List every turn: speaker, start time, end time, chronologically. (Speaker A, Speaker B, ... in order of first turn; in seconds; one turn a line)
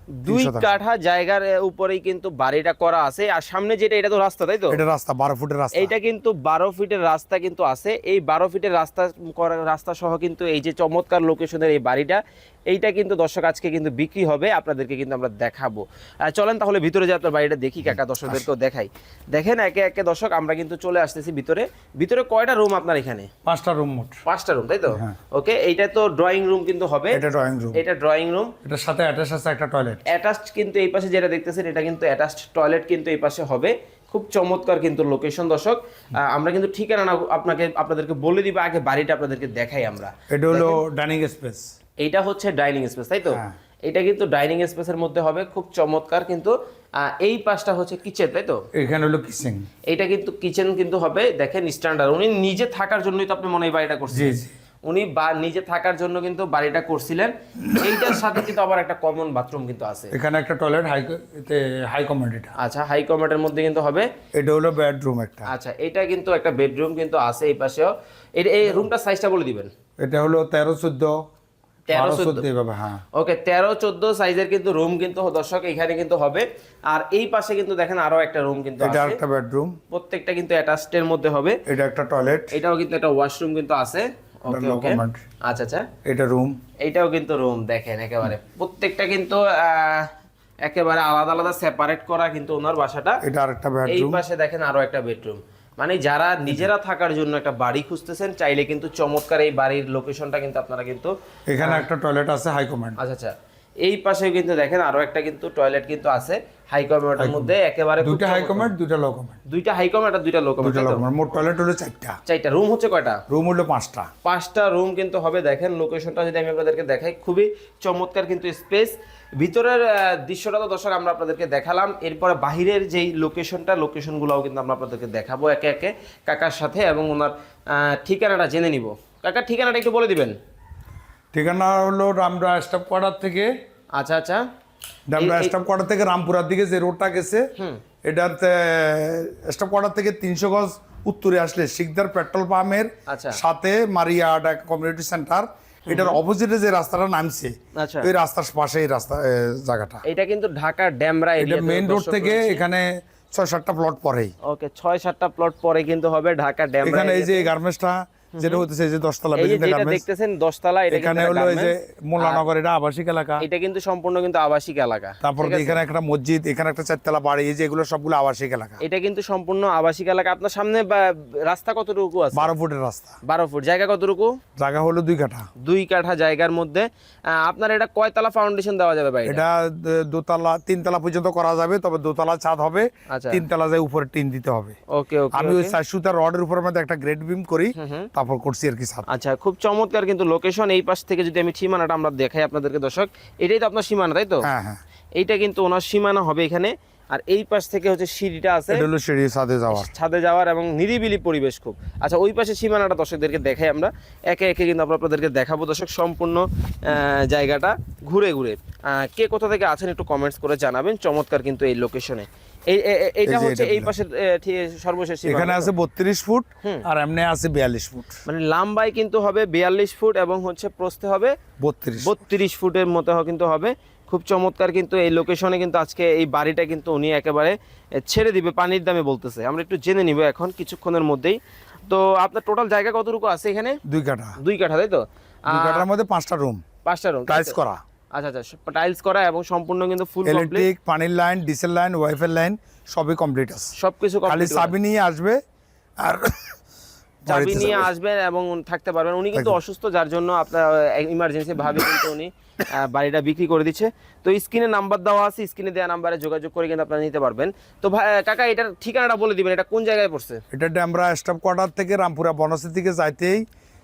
Speaker A: 0.2-4.8
Speaker B: 0.3-0.8
Speaker B: 4.7-5.9
Speaker A: 5.7-23.3
Speaker B: 23.4-24.2
Speaker A: 24.2-27.2
Speaker B: 24.9-25.2
Speaker B: 27.1-27.8
Speaker A: 27.7-28.5
Speaker B: 28.6-30.0
Speaker A: 30.1-40.8
Speaker B: 40.3-41.7
Speaker A: 42.0-48.6
Speaker B: 48.8-49.7
Speaker A: 49.9-60.1
Speaker B: 54.1-54.5
Speaker B: 57.7-58.5
Speaker B: 60.1-62.5
Speaker A: 62.6-64.1
Speaker B: 64.4-65.5
Speaker A: 65.5-69.7
Speaker B: 70.0-71.2
Speaker A: 71.9-72.5
Speaker B: 71.9-73.0
Speaker A: 73.1-79.2
Speaker B: 78.8-79.8
Speaker A: 79.9-81.6
Speaker B: 81.7-82.5
Speaker A: 82.5-85.9
Speaker B: 84.5-85.2
Speaker B: 86.0-86.6
Speaker A: 86.8-90.1
Speaker A: 90.7-93.2
Speaker B: 93.2-94.2
Speaker A: 93.9-101.9
Speaker B: 101.5-103.0
Speaker A: 103.0-108.7
Speaker B: 107.2-109.4
Speaker A: 109.5-111.1
Speaker B: 110.6-112.2
Speaker A: 112.3-113.2
Speaker B: 113.3-114.1
Speaker A: 114.2-130.4
Speaker B: 131.3-133.5
Speaker A: 134.0-134.4
Speaker B: 135.1-137.5
Speaker A: 135.2-135.5
Speaker B: 138.1-150.0
Speaker A: 143.1-143.4
Speaker A: 145.9-146.2
Speaker A: 147.8-148.1
Speaker A: 150.1-152.6
Speaker B: 151.4-154.3
Speaker A: 154.4-157.5
Speaker B: 156.8-160.0
Speaker A: 158.3-158.7
Speaker A: 159.4-162.4
Speaker B: 160.9-163.4
Speaker A: 163.4-165.8
Speaker B: 165.2-168.8
Speaker A: 168.8-172.5
Speaker B: 172.3-173.2
Speaker A: 173.3-174.3
Speaker B: 174.6-175.5
Speaker A: 175.6-179.4
Speaker B: 179.2-184.8
Speaker A: 183.1-183.4
Speaker A: 184.9-185.8
Speaker B: 185.3-189.1
Speaker A: 187.8-188.1
Speaker A: 189.1-194.5
Speaker B: 194.4-194.8
Speaker A: 195.2-198.8
Speaker B: 198.7-199.9
Speaker A: 199.7-215.7
Speaker B: 213.3-213.9
Speaker B: 215.2-218.2
Speaker A: 218.3-221.4
Speaker B: 221.6-222.1
Speaker A: 222.0-233.8
Speaker B: 233.8-234.4
Speaker A: 234.4-235.9
Speaker B: 235.5-236.6
Speaker A: 236.8-237.6
Speaker B: 237.3-237.8
Speaker A: 238.1-240.7
Speaker B: 240.2-243.7
Speaker A: 243.8-244.7
Speaker B: 244.3-245.4
Speaker B: 246.0-246.6
Speaker B: 247.2-247.9
Speaker A: 247.3-260.4
Speaker B: 260.5-263.4